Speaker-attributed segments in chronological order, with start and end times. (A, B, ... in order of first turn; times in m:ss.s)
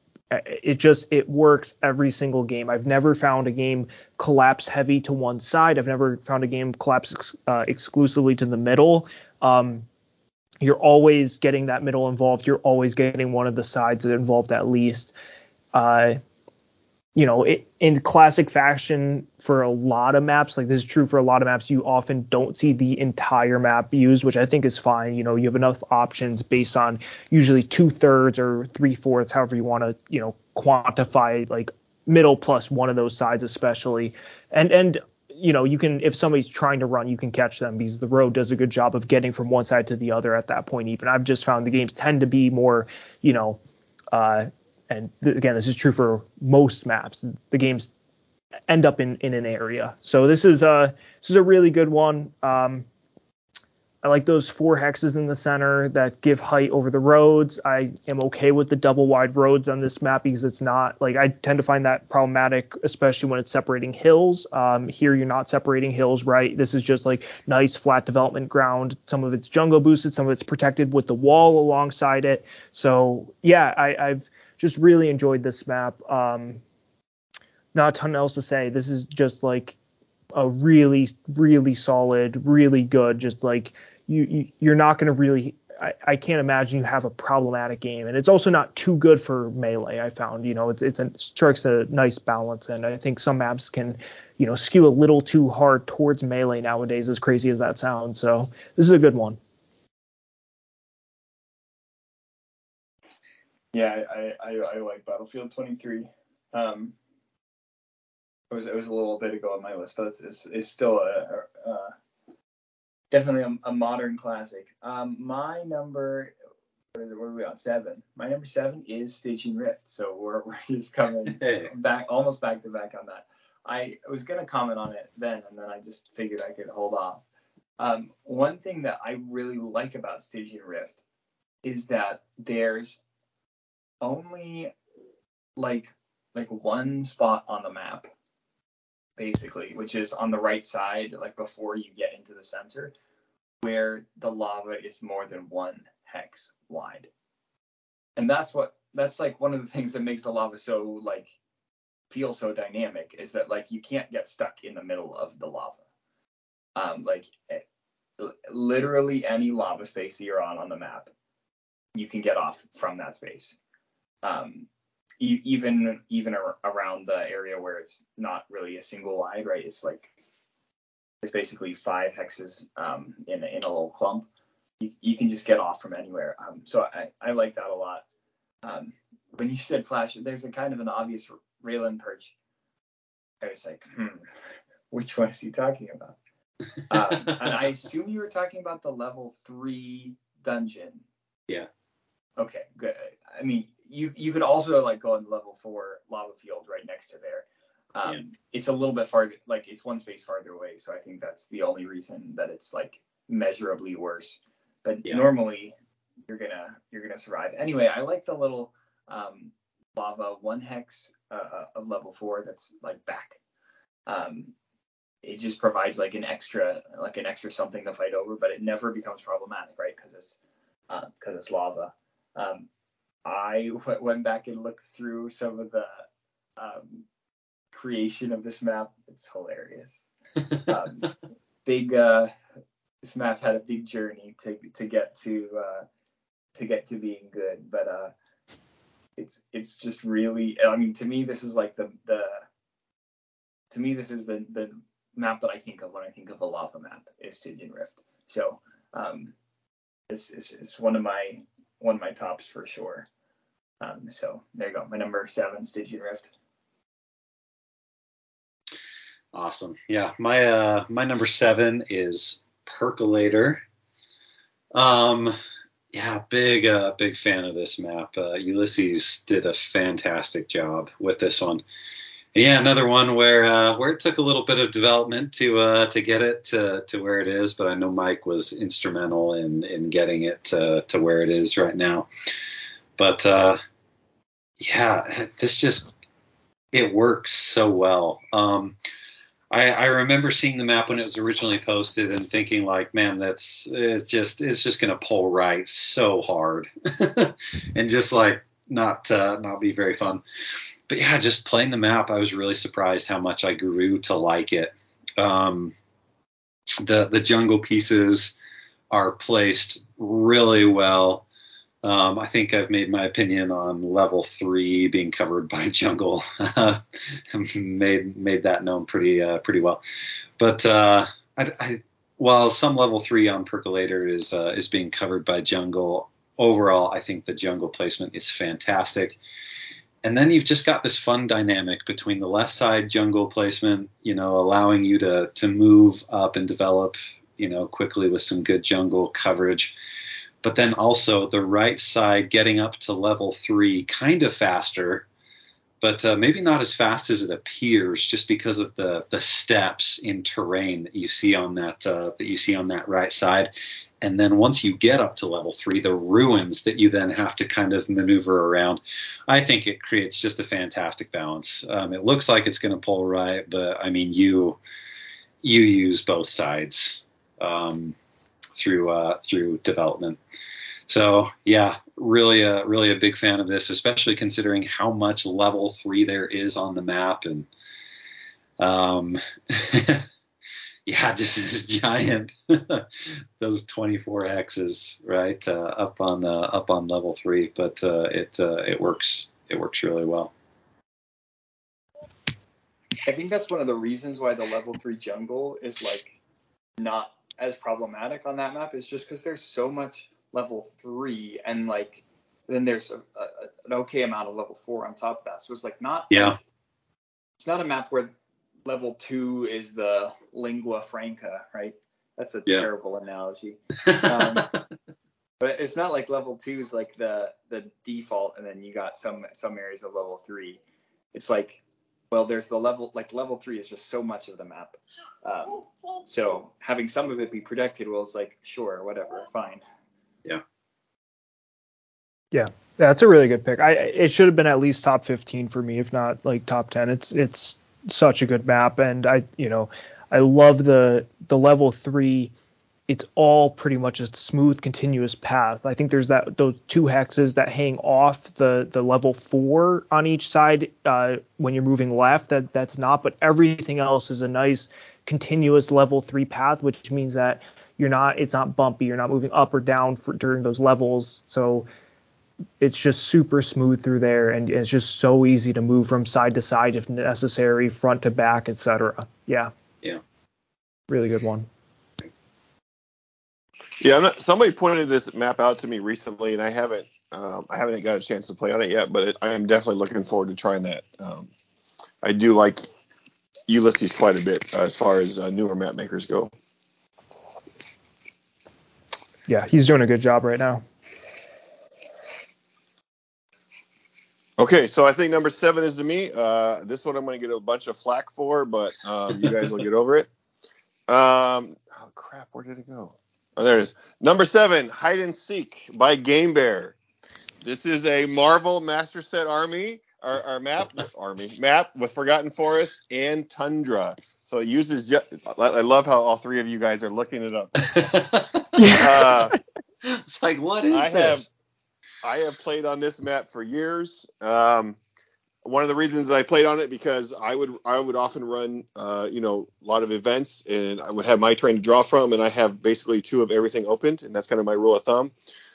0:00.3-0:09.8 A
0:10.6-0:15.1 A
0:15.7-0:16.2 A
0:17.1-0:43.6 A
0:44.1-0:47.9 A
0:48.7-0:52.8 A
0:54.0-1:16.6 A
1:17.7-1:19.8 A
1:20.3-1:39.4 A
1:43.7-1:46.9 B
1:48.5-1:51.9 B
1:53.1-1:56.3 B
1:56.9-2:07.2 B
2:01.2-2:01.7 C
2:07.8-2:11.0 B
2:11.6-2:13.0 B
2:14.0-2:14.7 B
2:15.6-2:18.1 B
2:19.2-2:22.9 B
2:23.6-2:27.1 B
2:28.2-2:31.3 B
2:32.1-2:35.8 B
2:36.7-2:37.6 B
2:38.2-2:41.1 B
2:41.9-2:43.6 B
2:44.2-2:44.7 B
2:45.2-2:50.1 B
2:51.2-2:54.3 B
2:54.8-2:58.0 B
2:58.6-3:02.3 B
3:03.4-3:04.2 B
3:04.9-3:06.2 B
3:06.9-3:11.0 B
3:12.4-3:25.7 B
3:26.2-3:33.4 B
3:34.1-3:34.5 B
3:35.2-3:40.4 B
3:40.9-3:42.7 B
3:43.2-3:46.0 B
3:46.6-3:47.0 B
3:47.7-3:50.0 B
3:50.6-3:52.3 B
3:53.0-3:55.8 B
3:56.5-3:58.1 B
3:59.2-4:02.4 B
4:03.7-4:09.3 B
4:10.1-4:13.1 B
4:13.8-4:16.3 B
4:19.3-4:23.6 C
4:24.7-4:25.3 C
4:25.9-4:31.6 C
4:32.3-4:42.1 C
4:43.0-4:43.6 C
4:44.6-4:45.9 C
4:46.7-4:48.8 C
4:49.5-5:00.2 C
5:00.9-5:05.7 C
5:06.8-5:08.3 C
5:08.9-5:11.2 C
5:11.8-5:19.8 C
5:20.4-5:29.2 C
5:30.0-5:39.7 C
5:40.4-5:45.0 C
5:45.8-6:04.6 C
6:05.4-6:08.0 C
6:08.6-6:10.2 C
6:10.9-6:17.5 C
6:18.6-6:20.0 C
6:20.8-6:30.3 C
6:33.0-6:36.2 B
6:36.8-6:46.4 B
6:46.1-6:46.4 C
6:47.4-6:48.1 B
6:48.6-6:54.5 B
6:53.9-6:54.6 C
6:55.4-7:00.6 B
7:01.1-7:09.6 B
7:12.3-7:22.3 A
7:22.9-7:41.7 A
7:42.6-7:49.5 A
7:50.9-7:51.5 A
7:53.8-8:01.3 D
8:02.0-8:02.7 D
8:03.5-8:06.3 D
8:09.3-8:10.6 A
8:14.4-8:20.1 D
8:20.9-8:26.8 D
8:27.4-8:37.9 D
8:37.6-8:39.1 C
8:38.6-8:39.3 A
8:38.7-8:39.3 D
8:39.8-8:41.2 C
8:40.7-8:41.3 D
8:42.0-8:44.8 D
8:45.4-8:55.1 D